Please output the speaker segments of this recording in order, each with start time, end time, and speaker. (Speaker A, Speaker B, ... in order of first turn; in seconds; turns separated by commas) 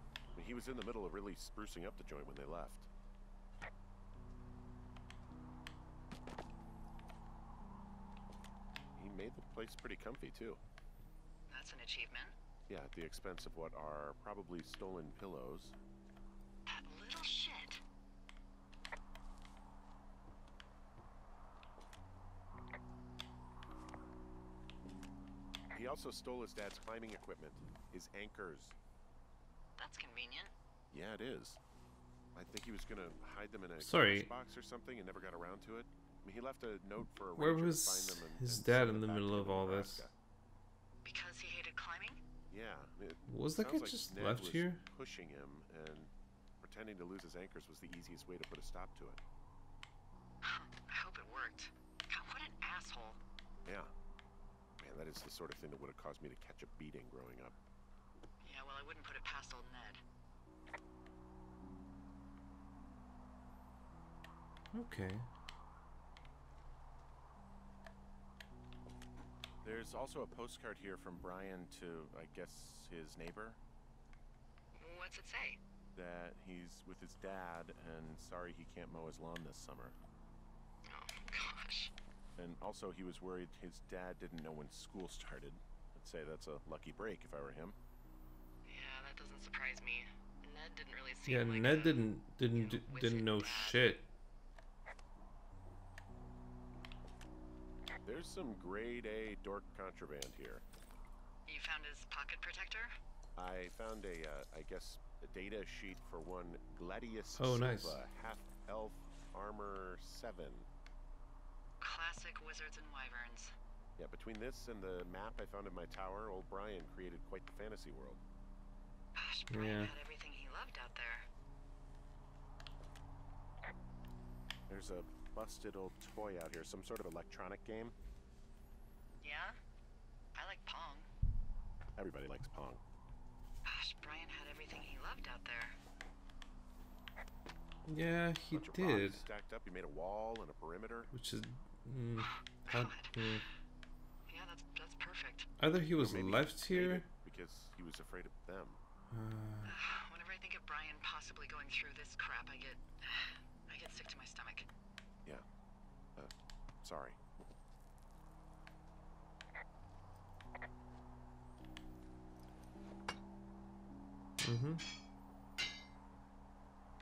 Speaker A: 0.3-2.9, Speaker A: 8.9-10.6, Speaker B: 11.5-12.3, Speaker A: 12.7-15.7, Speaker B: 16.7-17.8, Speaker A: 25.7-28.8, Speaker B: 29.8-30.5, Speaker A: 30.9-31.6, Speaker A: 32.3-40.1, Speaker C: 33.8-34.3, Speaker C: 37.4-40.0, Speaker B: 41.0-42.2, Speaker A: 42.5-49.2, Speaker C: 43.3-44.8, Speaker B: 50.4-53.2, Speaker A: 53.6-53.9, Speaker A: 54.8-57.5, Speaker B: 58.4-60.0, Speaker C: 64.7-65.2, Speaker A: 69.6-73.6, Speaker B: 74.8-75.6, Speaker A: 75.9-80.0, Speaker B: 80.8-81.9, Speaker A: 82.3-87.8, Speaker B: 88.7-93.9, Speaker C: 91.2-94.0, Speaker A: 98.0-100.6, Speaker B: 101.5-102.9, Speaker A: 103.3-110.7, Speaker C: 107.4-108.0, Speaker B: 111.8-113.5, Speaker A: 114.0-118.2, Speaker B: 119.1-121.3, Speaker C: 119.5-119.9, Speaker A: 124.7-127.9, Speaker B: 129.2-129.6, Speaker B: 130.3-131.1, Speaker A: 131.9-132.8, Speaker B: 133.6-135.8, Speaker C: 137.8-139.2, Speaker A: 138.5-141.1, Speaker C: 141.1-143.4, Speaker B: 142.2-143.2, Speaker B: 144.3-145.5, Speaker C: 145.6-147.0, Speaker A: 146.0-148.8, Speaker C: 149.1-149.7, Speaker B: 149.6-154.7, Speaker A: 156.2-157.2, Speaker C: 164.4-164.8